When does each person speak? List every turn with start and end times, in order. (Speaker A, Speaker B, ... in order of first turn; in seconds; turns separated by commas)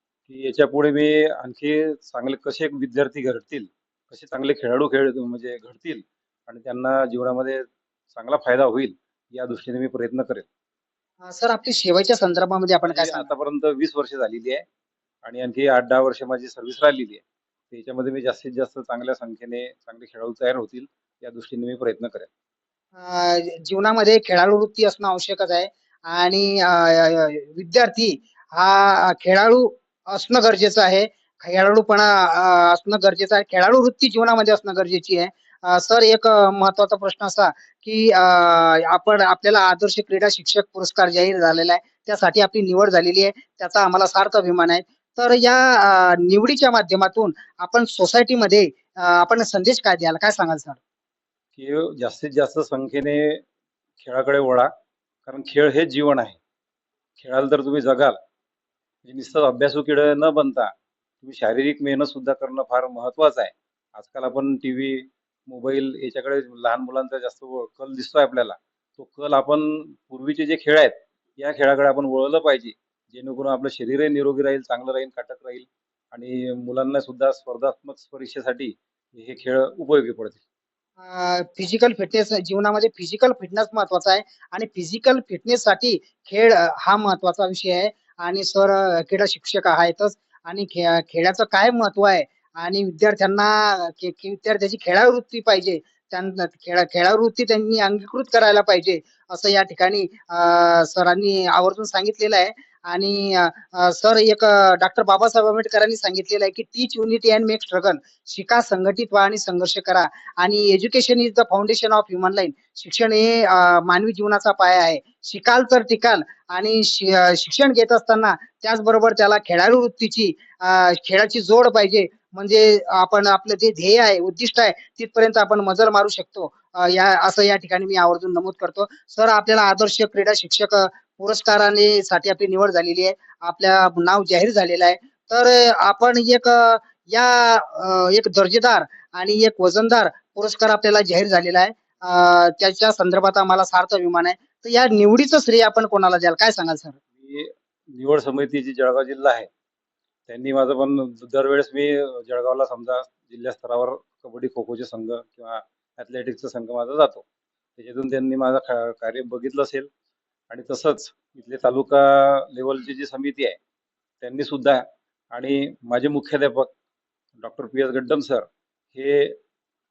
Speaker A: 0.3-10.5, Speaker B: 11.2-13.3, Speaker A: 12.9-14.6, Speaker A: 15.2-22.3, Speaker B: 22.9-50.8, Speaker A: 51.6-53.4, Speaker A: 54.0-54.7, Speaker A: 55.3-56.4, Speaker A: 57.2-58.2, Speaker A: 59.0-80.4, Speaker B: 81.0-147.0, Speaker A: 147.2-149.5, Speaker A: 150.3-157.2, Speaker A: 157.8-159.9, Speaker A: 160.5-163.6, Speaker A: 164.2-166.7, Speaker A: 167.4-169.4